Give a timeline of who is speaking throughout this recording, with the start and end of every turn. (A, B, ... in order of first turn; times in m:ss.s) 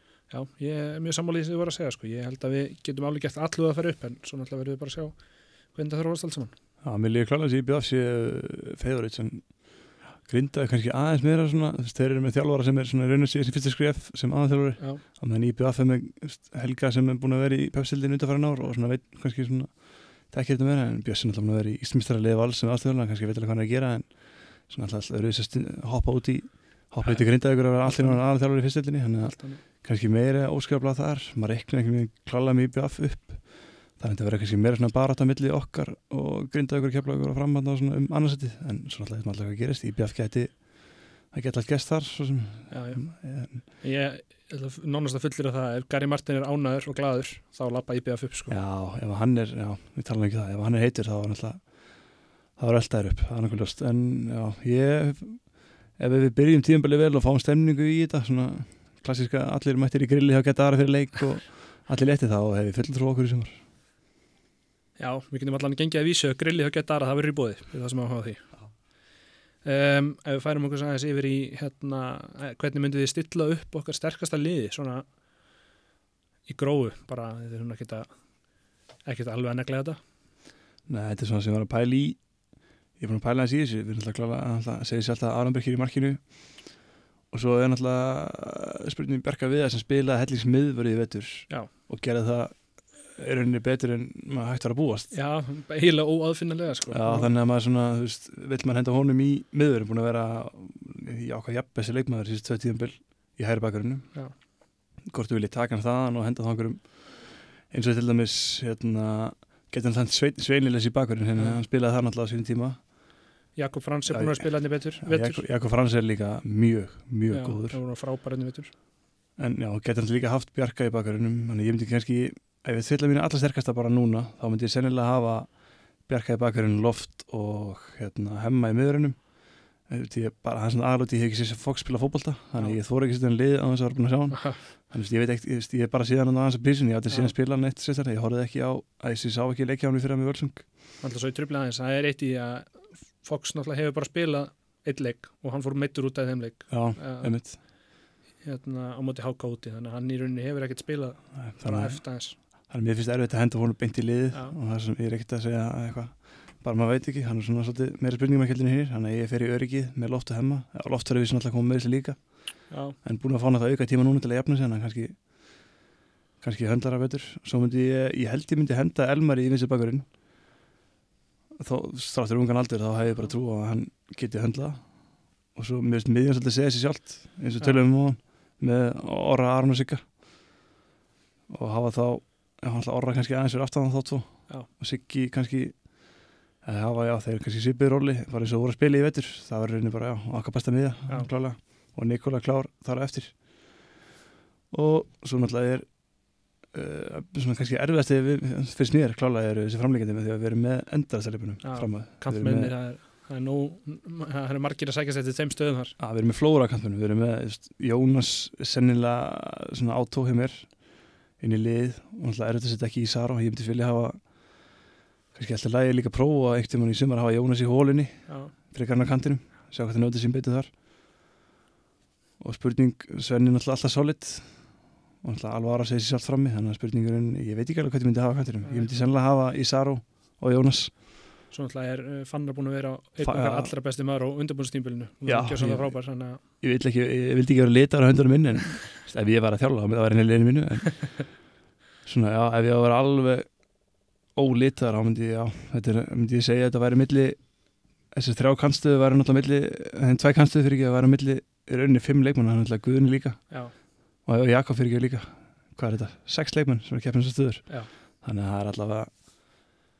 0:00.3-0:06.5 A
0:06.8-0:43.6 B
0:27.0-0:29.6 A
0:42.7-0:48.6 A
0:48.5-1:03.6 B
1:05.0-1:09.0 A
1:09.6-1:15.2 A
1:16.4-1:20.0 A
1:20.9-1:35.1 B
1:35.1-1:37.3 A
1:36.9-1:44.5 B
1:45.0-1:53.1 B
1:51.4-1:51.6 A
1:53.5-1:55.5 A
1:54.1-1:57.8 B
1:57.3-1:58.7 A
1:59.4-2:20.8 B
2:12.5-2:12.8 A
2:14.3-2:14.6 A
2:17.1-2:17.3 A
2:21.0-2:32.4 A
2:26.7-2:27.6 B
2:31.3-2:45.8 B
2:42.7-2:43.0 A
2:46.4-2:50.6 B
2:51.6-3:00.5 B
3:01.5-3:13.8 B
3:14.7-3:22.8 B
3:21.6-3:26.0 A
3:26.0-3:34.8 B
3:35.3-3:40.7 B
3:38.3-3:38.5 A
3:42.4-3:51.0 B
3:48.6-3:48.9 A
3:51.5-3:56.4 A
3:53.2-3:53.7 B
3:55.2-4:01.5 B
4:02.0-4:19.6 B